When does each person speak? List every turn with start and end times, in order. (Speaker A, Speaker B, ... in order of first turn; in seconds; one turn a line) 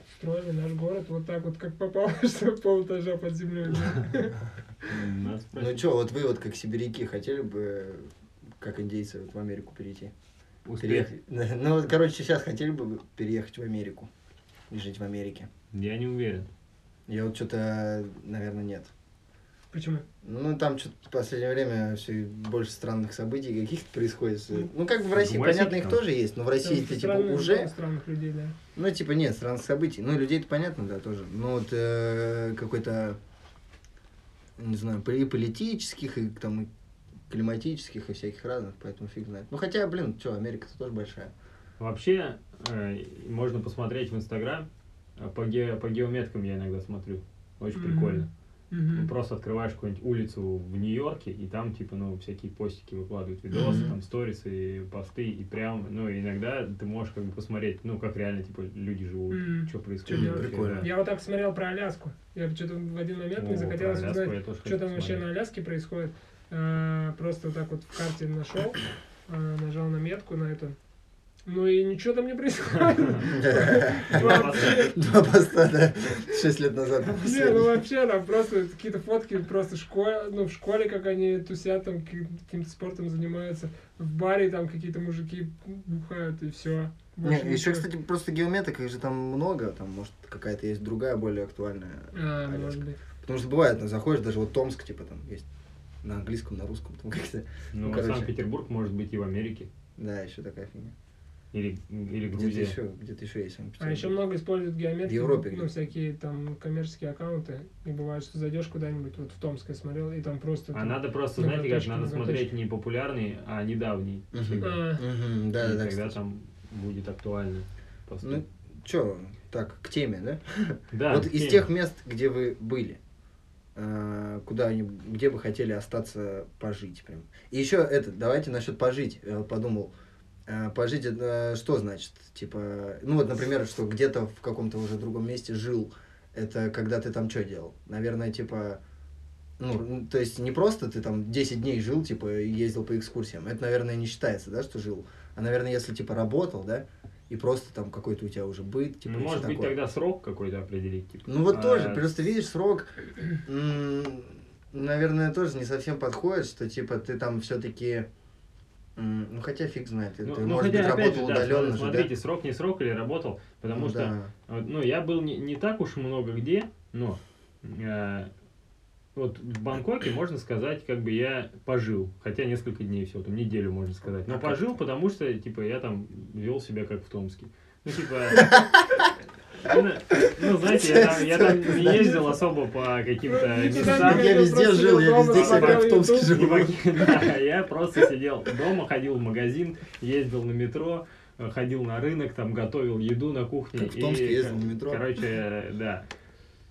Speaker A: 0.2-4.4
Speaker B: 4.8-5.8
Speaker C: 5.5-10.1
Speaker B: 10.6-11.1
Speaker C: 10.8-14.1
Speaker C: 14.7-15.5
Speaker B: 15.7-16.5
Speaker C: 17.1-18.9
Speaker A: 19.7-20.0
Speaker C: 20.2-27.7
Speaker B: 25.1-26.0
Speaker A: 26.6-28.6
Speaker C: 28.7-33.2
Speaker C: 34.6-36.7
Speaker C: 37.3-41.3
Speaker B: 41.8-48.3
Speaker A: 47.7-49.1
Speaker B: 48.9-60.9
Speaker C: 53.5-54.0
Speaker A: 59.3-70.8
Speaker C: 60.0-60.9
Speaker B: 63.4-65.2
Speaker A: 71.5-75.0
Speaker C: 73.3-77.7
Speaker B: 74.1-74.9
Speaker A: 77.2-87.9
Speaker C: 87.2-95.5
Speaker A: 92.1-93.0
Speaker C: 96.0-98.3
Speaker B: 97.7-99.7
Speaker C: 100.0-100.9
Speaker B: 101.5-102.8
Speaker C: 102.3-104.1
Speaker A: 103.8-112.5
Speaker C: 105.0-105.7
Speaker B: 110.7-114.7
Speaker C: 114.3-116.1
Speaker A: 114.6-115.0
Speaker B: 115.6-118.4
Speaker C: 118.2-123.0
Speaker B: 120.9-121.6
Speaker C: 123.7-129.9
Speaker C: 130.5-138.8
Speaker C: 139.6-149.7
Speaker B: 149.0-152.0
Speaker C: 151.3-152.9
Speaker C: 153.4-158.1
Speaker C: 158.9-162.1
Speaker B: 160.2-168.3
Speaker C: 163.7-164.3
Speaker B: 169.1-178.6
Speaker C: 174.3-174.7
Speaker C: 178.3-179.0
Speaker B: 179.6-184.3
Speaker C: 179.7-182.3
Speaker A: 183.2-186.4
Speaker C: 183.8-187.2
Speaker B: 185.3-196.0
Speaker C: 193.7-195.0